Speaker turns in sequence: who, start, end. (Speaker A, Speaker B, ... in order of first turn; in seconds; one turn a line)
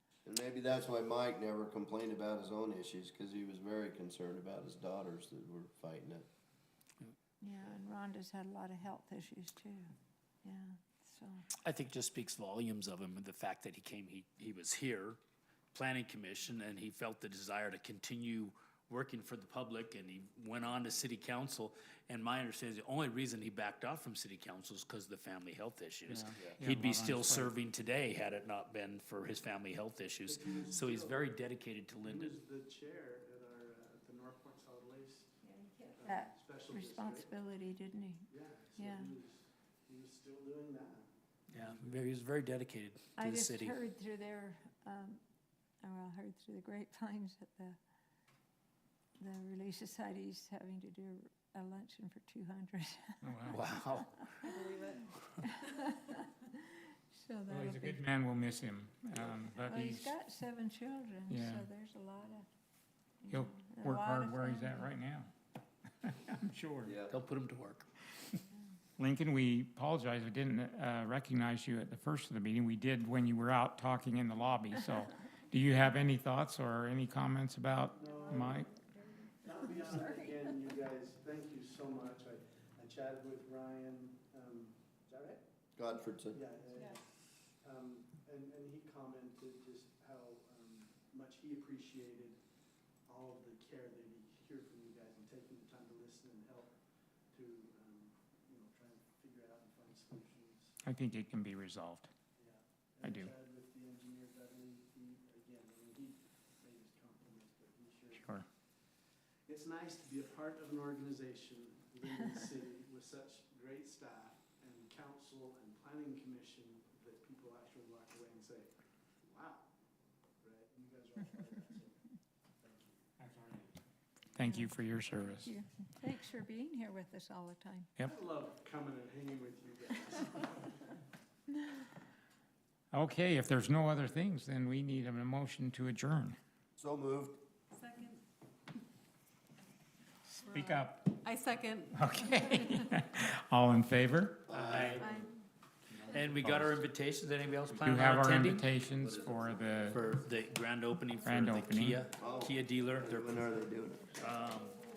Speaker A: 0.3-6.3
Speaker B: 7.4-9.9
Speaker B: 10.4-11.4
Speaker C: 11.6-15.2
Speaker C: 15.7-32.4
Speaker D: 26.1-27.5
Speaker E: 30.3-31.3
Speaker E: 32.0-35.4
Speaker E: 35.9-37.4
Speaker B: 36.0-39.1
Speaker E: 38.3-41.1
Speaker C: 41.5-43.8
Speaker B: 43.2-45.2
Speaker B: 45.8-47.8
Speaker B: 49.2-53.5
Speaker D: 53.2-53.6
Speaker C: 53.5-54.5
Speaker B: 54.3-58.0
Speaker F: 54.5-55.9
Speaker D: 57.5-60.1
Speaker B: 59.6-62.5
Speaker D: 61.3-61.7
Speaker B: 63.2-64.9
Speaker D: 63.3-65.3
Speaker D: 66.0-66.9
Speaker A: 66.8-67.1
Speaker C: 67.1-68.4
Speaker D: 69.0-78.7
Speaker E: 78.0-78.7
Speaker F: 78.0-79.0
Speaker E: 79.4-85.4
Speaker A: 85.8-86.4
Speaker E: 86.3-87.1
Speaker E: 87.6-92.4
Speaker E: 93.1-96.8
Speaker E: 97.3-100.8
Speaker D: 100.8-102.1
Speaker E: 102.4-108.4
Speaker D: 103.0-103.3
Speaker D: 108.2-108.5
Speaker E: 109.5-118.7
Speaker E: 119.2-119.7
Speaker E: 120.4-122.0
Speaker E: 122.6-123.2
Speaker D: 123.2-123.8
Speaker D: 124.3-125.5
Speaker B: 124.4-124.7
Speaker B: 125.4-127.9
Speaker E: 128.0-130.8
Speaker D: 132.9-136.4
Speaker A: 136.8-137.4
Speaker F: 137.8-138.2
Speaker F: 140.4-142.9
Speaker D: 140.5-141.2
Speaker D: 141.9-144.5
Speaker A: 144.5-145.1
Speaker C: 144.5-145.3
Speaker F: 145.0-145.3
Speaker D: 145.9-146.8
Speaker C: 146.1-148.7
Speaker D: 147.7-150.0
Speaker A: 149.0-150.0
Speaker C: 149.9-153.5
Speaker D: 151.2-152.0
Speaker A: 152.1-154.3
Speaker C: 154.2-154.8